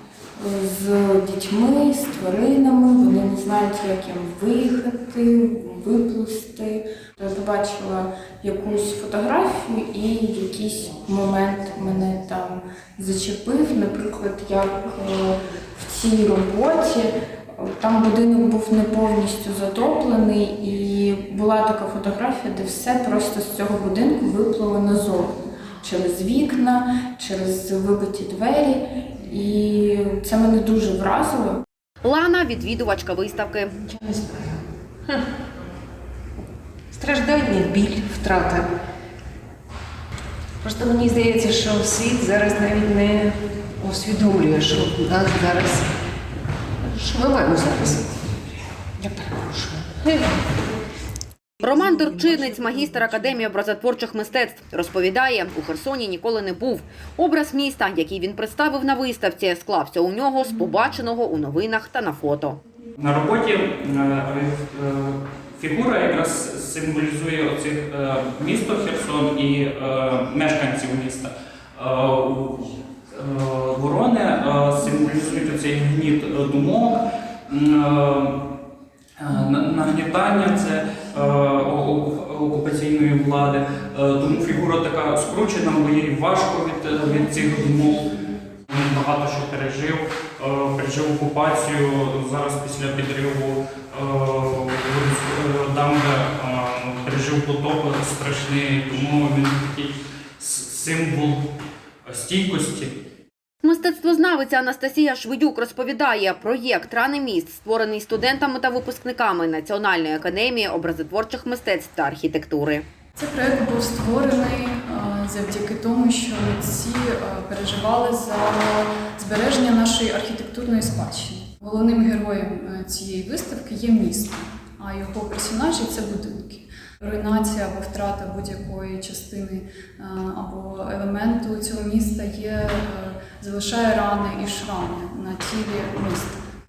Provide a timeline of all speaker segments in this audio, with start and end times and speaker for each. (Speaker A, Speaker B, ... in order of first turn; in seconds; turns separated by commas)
Speaker A: 0.4-31.6, Speaker B: 32.0-33.7, Speaker C: 33.9-35.3, Speaker C: 36.9-38.7, Speaker C: 40.6-45.9, Speaker C: 46.8-50.5, Speaker B: 51.6-62.6, Speaker D: 63.0-78.4, Speaker D: 79.2-88.1, Speaker D: 88.7-101.4, Speaker D: 102.0-102.9, Speaker B: 103.6-112.8, Speaker E: 113.2-136.4